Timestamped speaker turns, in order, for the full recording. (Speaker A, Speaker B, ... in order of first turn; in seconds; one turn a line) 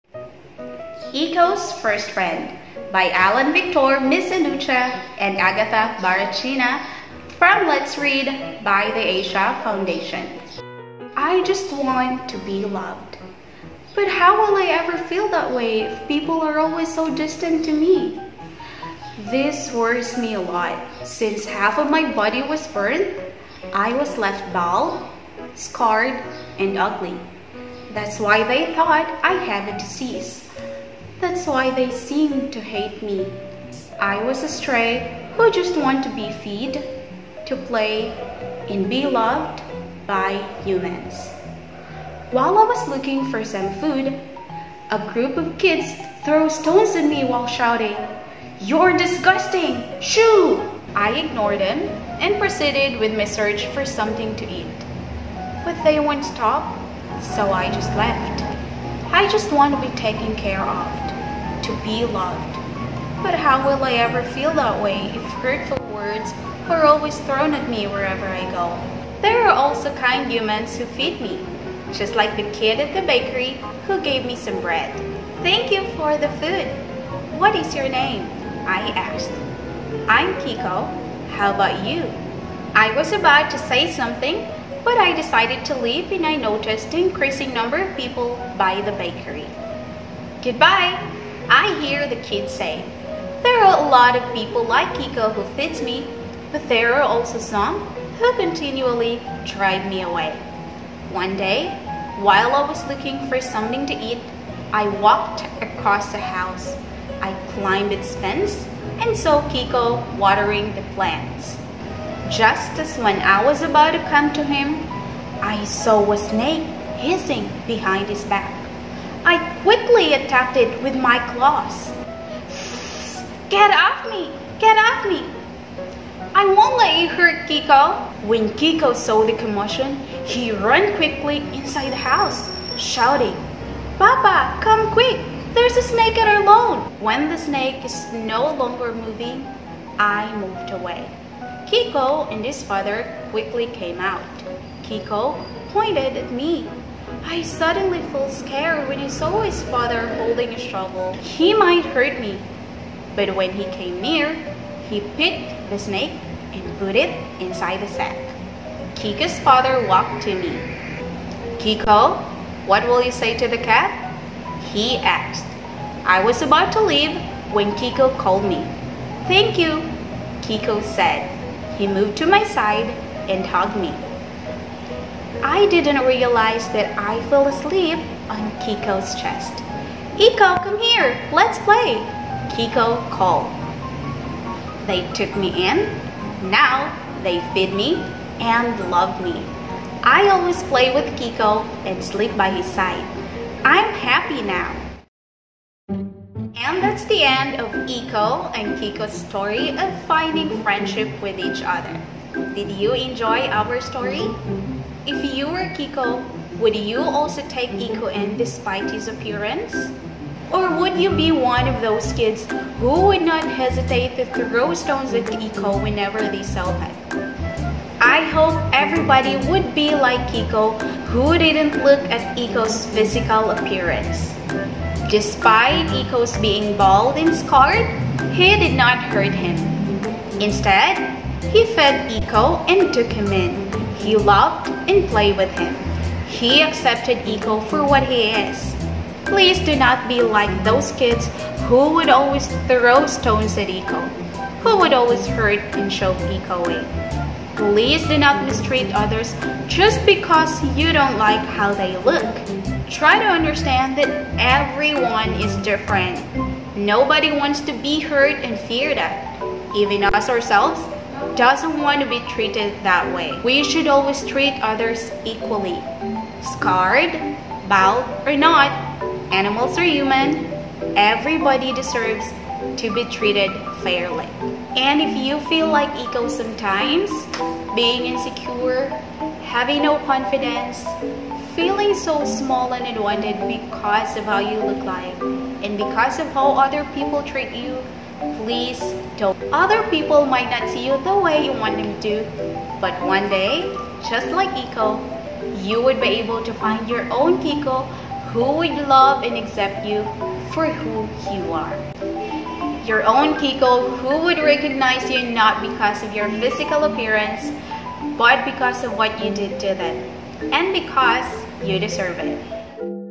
Speaker A: 1.1-10.4
Speaker A: 11.2-13.2
Speaker A: 13.9-18.2
Speaker A: 19.2-27.2
Speaker A: 27.9-30.5
Speaker A: 31.2-36.9
Speaker A: 37.4-41.4
Speaker A: 42.3-44.2
Speaker A: 44.9-54.9
Speaker A: 55.6-58.5
Speaker A: 59.1-62.6
Speaker A: 63.2-79.4
Speaker A: 80.1-82.2
Speaker A: 82.7-89.5
Speaker A: 90.4-92.9
Speaker A: 93.4-100.4
Speaker A: 101.1-111.6
Speaker A: 112.2-114.9
Speaker A: 115.4-118.7
Speaker A: 119.2-121.9
Speaker A: 122.5-125.3
Speaker A: 126.3-133.4
Speaker A: 134.0-141.1
Speaker A: 141.7-152.4
Speaker A: 153.1-158.3
Speaker A: 158.9-160.7
Speaker A: 161.6-174.0
Speaker A: 175.4-183.6
Speaker A: 184.8-189.5
Speaker A: 190.0-194.8
Speaker A: 196.5-204.4
Speaker A: 205.1-209.9
Speaker A: 210.5-217.0
Speaker A: 218.0-224.4
Speaker A: 225.1-229.8
Speaker A: 230.4-246.9
Speaker A: 247.6-265.9
Speaker A: 266.4-301.8
Speaker A: 302.8-307.6
Speaker A: 308.1-312.4